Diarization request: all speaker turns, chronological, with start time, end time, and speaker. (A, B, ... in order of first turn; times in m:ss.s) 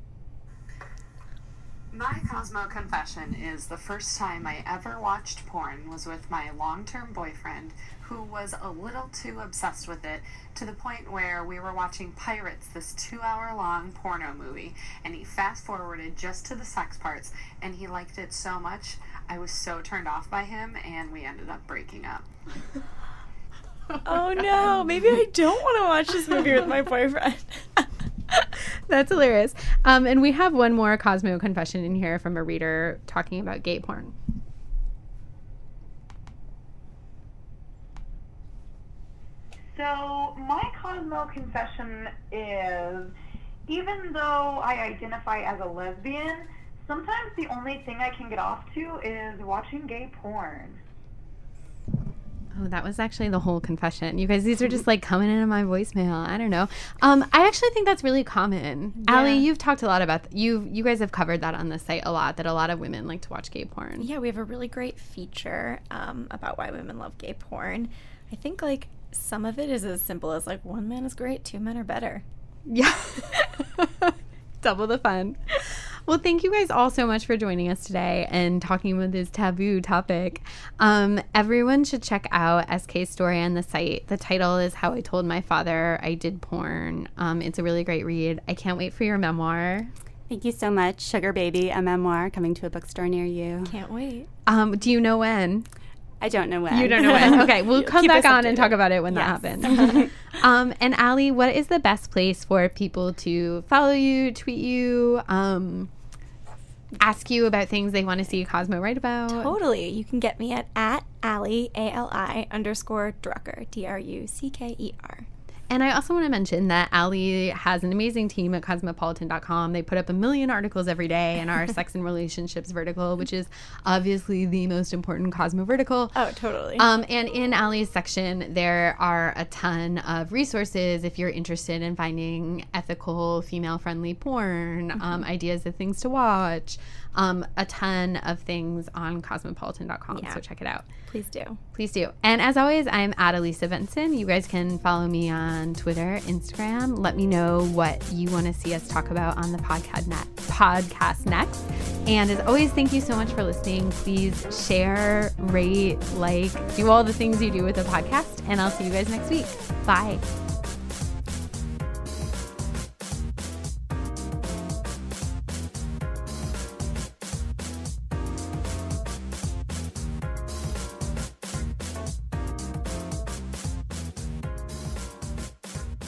0:01.9-0:22.3 A
0:24.0-0:27.9 B
0:28.9-0:34.2 C
0:39.7-0:43.2 D
0:43.7-0:50.8 D
0:52.6-1:04.1 C
0:59.0-0:59.5 B
1:04.0-1:12.2 B
1:12.7-1:15.4 C
1:16.1-1:29.9 C
1:30.3-1:33.8 E
1:33.7-1:34.3 B
1:34.5-1:35.7 C
1:36.2-1:40.1 E
1:36.7-1:45.9 C
1:37.0-1:37.5 B
1:39.8-1:40.0 B
1:47.0-1:49.6 C
1:49.3-1:55.3 B
1:55.7-2:06.2 C
2:06.2-2:06.9 B
2:06.8-2:20.9 C
2:20.1-2:20.4 B
2:21.0-2:21.6 B
2:21.7-2:40.3 C